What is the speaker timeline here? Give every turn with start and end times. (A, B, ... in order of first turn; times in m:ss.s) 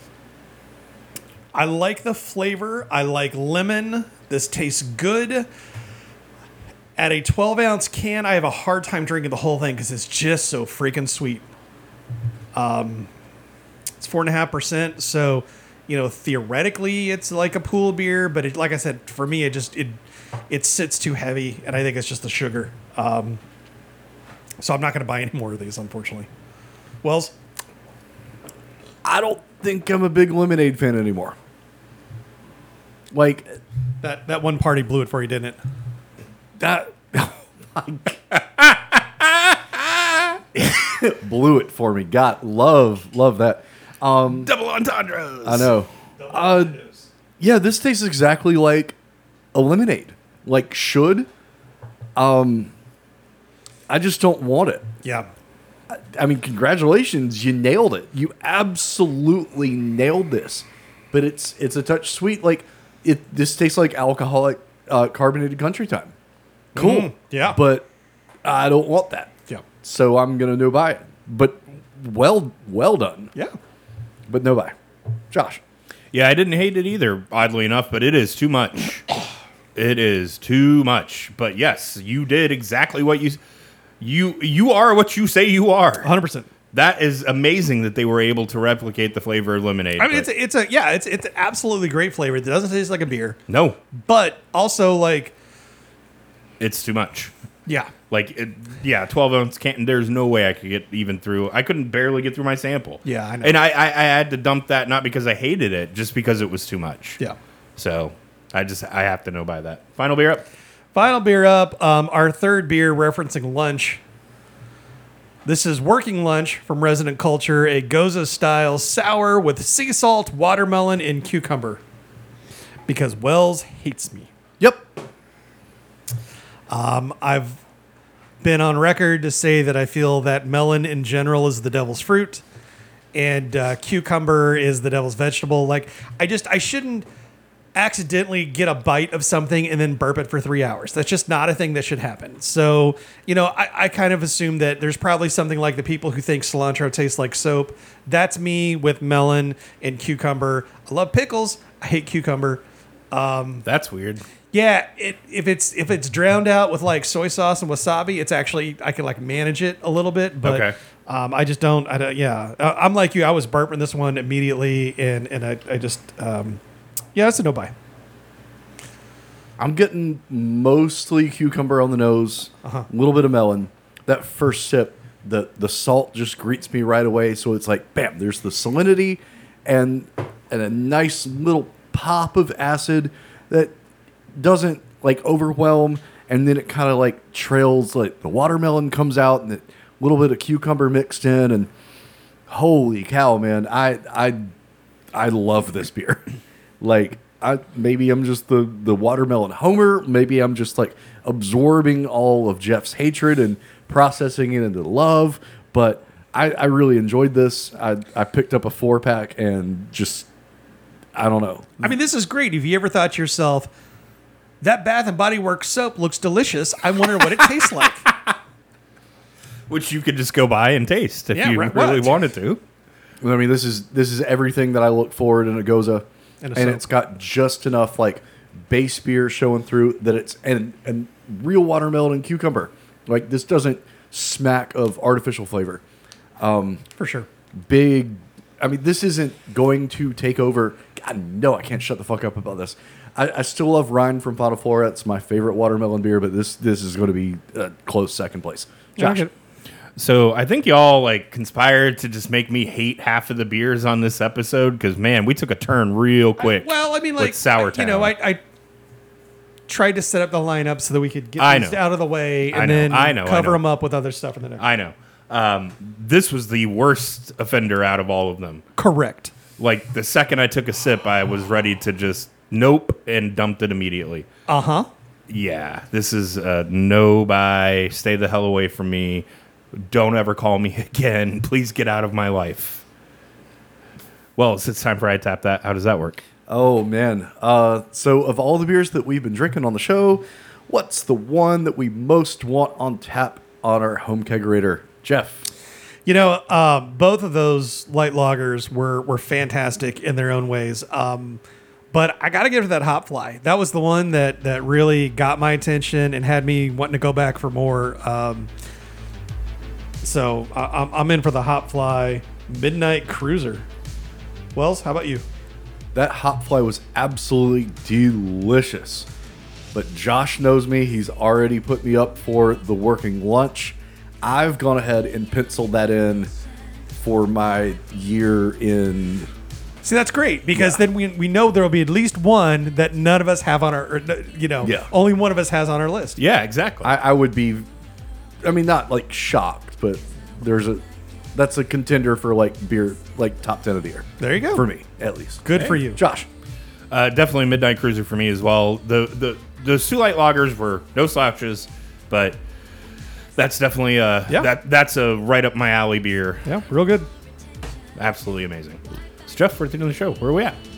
0:01.5-0:05.5 A
0:07.0-0:11.4 A
0:12.6-0:13.1 A
0:14.0-0:20.0 A
0:20.5-0:23.4 A
0:24.6-0:26.3 A
0:27.0-0:27.3 A
0:29.0-0:31.4 B
0:33.1-0:33.6 B
0:34.0-0:35.6 A
0:36.6-0:38.2 B
0:38.3-0:40.4 C
0:40.6-0:44.5 B
0:44.3-0:45.7 C
0:45.4-0:46.8 B
0:46.2-0:46.9 A
0:47.4-0:49.0 B
0:49.5-0:51.3 B
0:52.2-0:52.7 B
0:53.9-0:54.9 B
0:55.9-1:06.1 B
1:06.8-1:07.9 B
1:06.8-1:07.6 A
1:08.4-1:13.3 B
1:14.3-1:14.7 B
1:15.3-1:15.6 B
1:16.1-1:19.1 C
1:19.8-1:23.4 C
1:24.0-1:26.1 C
1:26.0-1:26.5 A
1:26.7-1:30.3 C
1:30.0-1:33.4 A
1:33.5-1:33.8 C
1:33.9-1:35.3 A
1:36.6-1:37.3 C
1:37.7-1:37.9 A
1:38.1-1:47.2 C
1:43.0-1:43.6 A
1:47.8-1:50.5 C
1:50.9-1:54.0 A
1:55.4-2:01.8 A
2:02.9-2:04.3 A
2:04.6-2:04.9 B
2:06.7-2:07.6 A
2:08.4-2:12.4 A
2:13.1-2:17.1 A
2:17.8-2:33.6 A
2:33.6-2:34.2 C
2:34.5-2:46.6 A
2:40.4-2:40.7 C
2:47.1-2:47.7 A
2:49.6-3:03.8 B
3:04.4-3:11.7 B
3:12.5-3:14.5 B
3:15.1-3:16.2 B
3:16.8-3:30.3 B
3:31.2-3:32.0 B
3:31.8-3:33.7 A
3:34.6-3:38.1 A
3:39.7-3:42.6 C
3:41.3-3:42.2 A
3:43.2-3:55.8 B
3:46.4-3:46.8 A
3:56.4-3:56.8 B
3:57.0-3:57.3 A
3:57.6-4:09.2 B
4:09.0-4:09.3 A
4:10.0-4:18.1 C
4:16.4-4:18.4 A
4:19.7-4:24.6 A
4:21.4-4:21.8 C
4:22.5-4:23.6 C
4:24.6-4:28.6 C
4:28.8-4:29.3 A
4:29.6-4:34.3 C
4:34.5-4:34.9 A
4:35.3-4:42.8 C
4:44.4-4:46.2 C
4:46.5-4:55.5 B
4:56.1-5:01.4 A
5:01.9-5:08.5 A
5:10.0-5:13.7 A
5:14.6-5:15.2 A
5:15.9-5:19.1 B
5:19.7-5:26.3 B
5:27.0-5:29.3 B
5:29.8-5:36.2 A
5:30.5-5:30.8 B
5:34.6-5:34.9 B
5:36.2-5:36.9 C
5:36.8-5:37.7 B
5:38.4-5:46.3 B
5:44.2-5:44.6 A
5:45.4-5:46.0 A
5:46.9-5:52.4 C
5:53.4-5:56.4 C
5:56.4-5:57.1 A
5:58.0-6:00.6 C